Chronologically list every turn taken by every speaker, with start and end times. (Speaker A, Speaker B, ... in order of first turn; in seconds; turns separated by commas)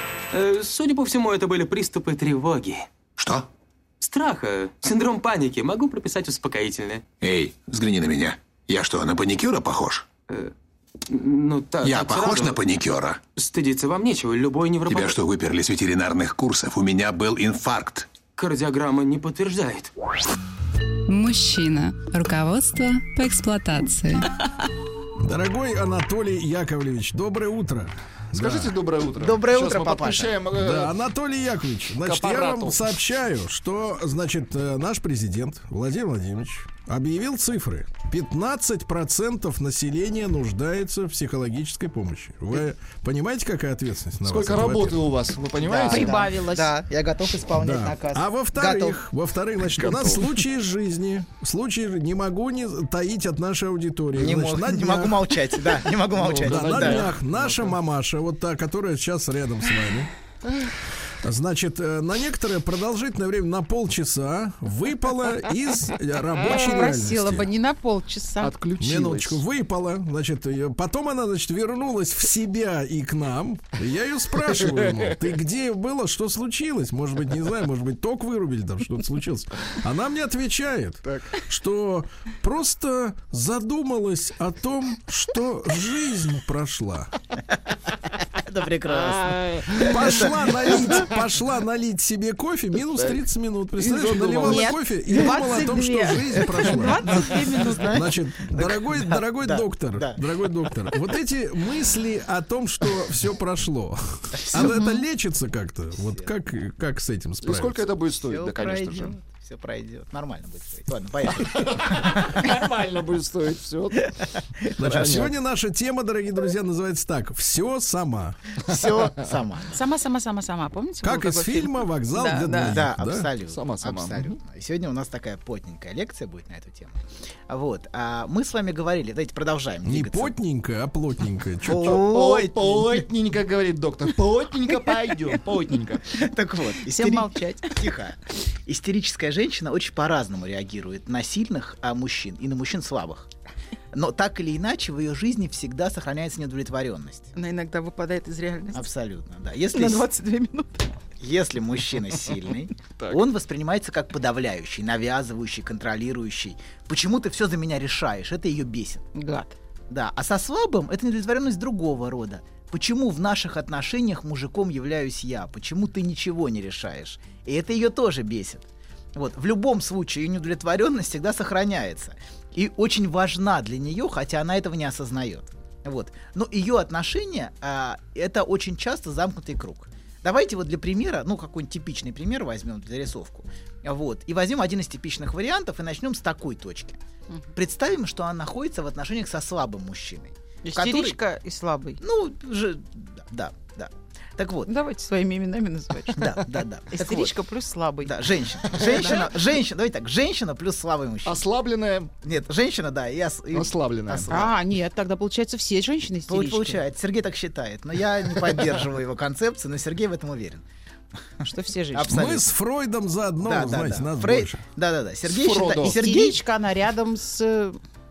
Speaker A: 0.3-2.9, Speaker B: 3.2-3.5, Speaker A: 4.0-7.0, Speaker B: 7.2-10.1, Speaker A: 11.1-12.6, Speaker B: 11.8-13.2, Speaker A: 13.4-15.2, Speaker B: 14.9-18.1, Speaker A: 18.4-19.9, Speaker C: 21.1-24.3, Speaker D: 25.2-28.8, Speaker E: 28.3-30.9, Speaker F: 29.2-30.4, Speaker D: 30.6-45.0, Speaker E: 32.0-32.8, Speaker E: 44.2-46.2, Speaker F: 45.6-49.0, Speaker G: 45.9-46.7, Speaker D: 47.5-55.3, Speaker E: 49.7-50.4, Speaker F: 54.2-57.1, Speaker E: 56.1-57.8, Speaker D: 56.4-60.1, Speaker D: 61.2-67.5, Speaker G: 66.5-68.5, Speaker E: 68.4-69.4, Speaker D: 68.8-87.1, Speaker E: 81.1-81.4, Speaker F: 88.4-90.0, Speaker E: 89.0-90.3, Speaker D: 89.8-97.4, Speaker E: 92.9-93.2, Speaker E: 93.8-94.7, Speaker G: 94.4-98.1, Speaker F: 97.1-100.2, Speaker D: 97.9-107.8, Speaker F: 104.5-104.8, Speaker G: 104.5-105.0, Speaker F: 106.0-106.3, Speaker E: 107.4-109.2, Speaker F: 108.2-112.2, Speaker E: 111.4-114.1, Speaker F: 114.7-115.3, Speaker D: 114.8-118.4, Speaker E: 114.8-115.3, Speaker F: 118.7-119.8, Speaker G: 119.7-122.8, Speaker D: 121.0-123.3, Speaker F: 122.7-127.0, Speaker E: 123.5-124.3, Speaker F: 127.5-130.3, Speaker D: 129.8-132.0, Speaker F: 131.7-133.1, Speaker E: 131.8-136.1, Speaker F: 136.1-143.3, Speaker G: 136.9-137.7, Speaker F: 143.9-147.3, Speaker G: 147.3-148.9, Speaker F: 148.7-150.1, Speaker G: 149.7-150.9, Speaker F: 151.2-159.1, Speaker E: 153.0-153.2, Speaker G: 159.1-159.6, Speaker F: 159.9-168.6, Speaker F: 169.2-187.0, Speaker F: 187.6-191.2, Speaker G: 190.6-192.0, Speaker F: 192.0-194.7, Speaker G: 194.7-196.3, Speaker F: 196.2-197.3, Speaker G: 197.0-198.2, Speaker F: 198.0-201.4, Speaker G: 198.7-199.3, Speaker E: 198.8-199.1, Speaker E: 201.2-202.1, Speaker F: 202.2-204.4, Speaker E: 203.5-204.4, Speaker G: 204.3-206.8, Speaker F: 206.3-210.6, Speaker G: 211.4-212.1, Speaker F: 211.9-212.5, Speaker D: 212.1-214.6, Speaker F: 213.4-216.4, Speaker E: 215.3-216.1, Speaker G: 215.8-217.8